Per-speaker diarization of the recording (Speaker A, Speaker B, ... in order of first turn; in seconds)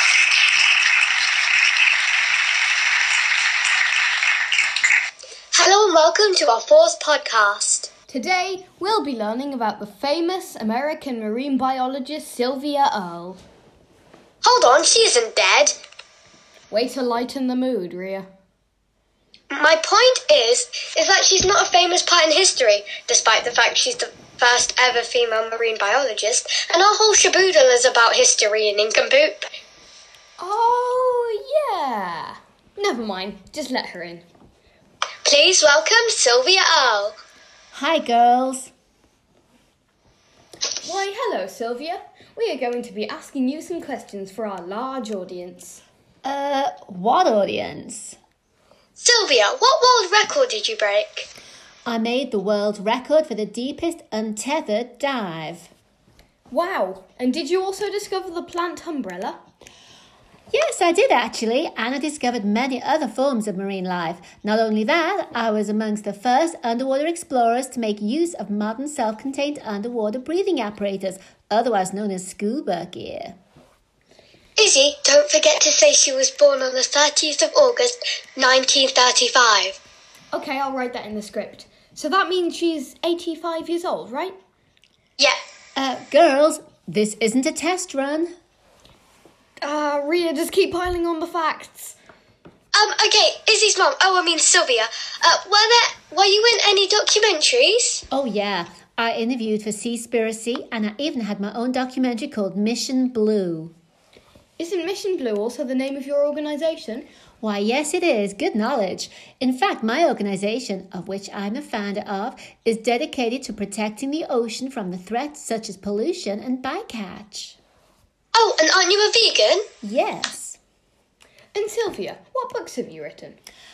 Speaker A: 5.5-7.9, 14.4-15.7, 19.5-29.5, 35.2-37.1, 49.0-51.3, 74.6-79.8, 92.7-98.0, 118.3-119.7
Speaker B: 8.1-13.4, 16.7-18.3, 30.4-34.2, 40.8-45.8, 56.5-59.4, 80.3-84.3, 89.6-92.0, 104.6-107.1, 121.5-123.4
Speaker C: 37.7-38.7, 46.2-48.2, 51.9-55.7, 60.5-73.4, 85.8-88.3, 98.1-103.7, 107.4-117.6, 119.8-120.6